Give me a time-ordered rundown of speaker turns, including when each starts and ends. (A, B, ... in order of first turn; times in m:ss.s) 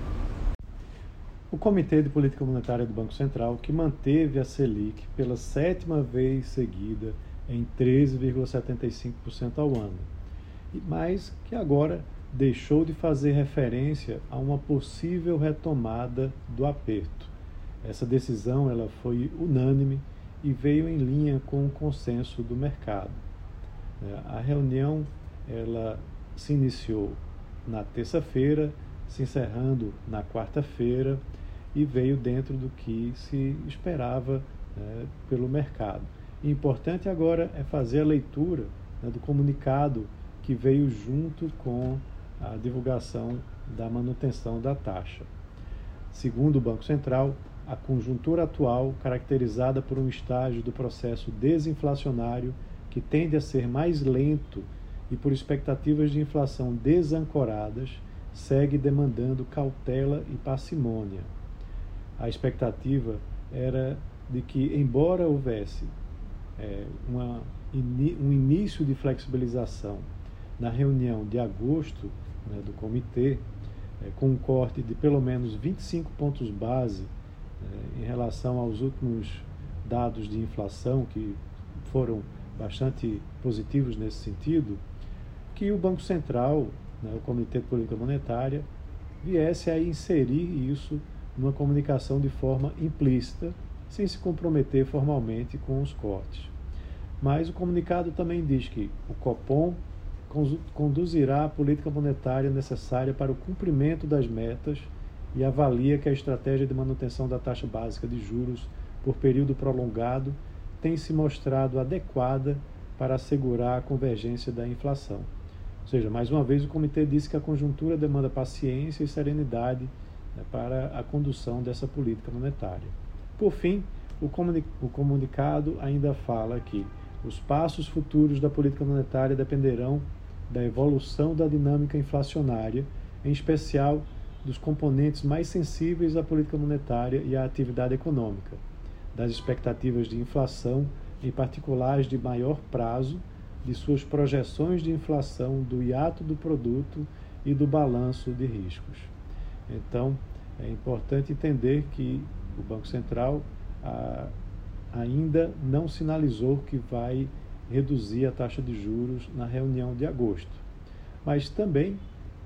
0:01.5-0:10.1 A
0:10.7-0:23.2 A
0:24.0-0:31.2 A
0:31.7-0:45.3 A
0:46.1-1:01.3 A
1:02.2-1:05.9 A
1:06.6-1:13.5 A
1:14.0-1:24.8 A
1:25.5-1:28.7 A
1:29.2-1:36.5 A
1:37.2-1:55.3 A
1:55.8-2:18.6 A
2:19.1-2:29.1 A
2:29.7-2:34.3 A
2:34.9-2:40.6 A
2:41.2-2:42.0 A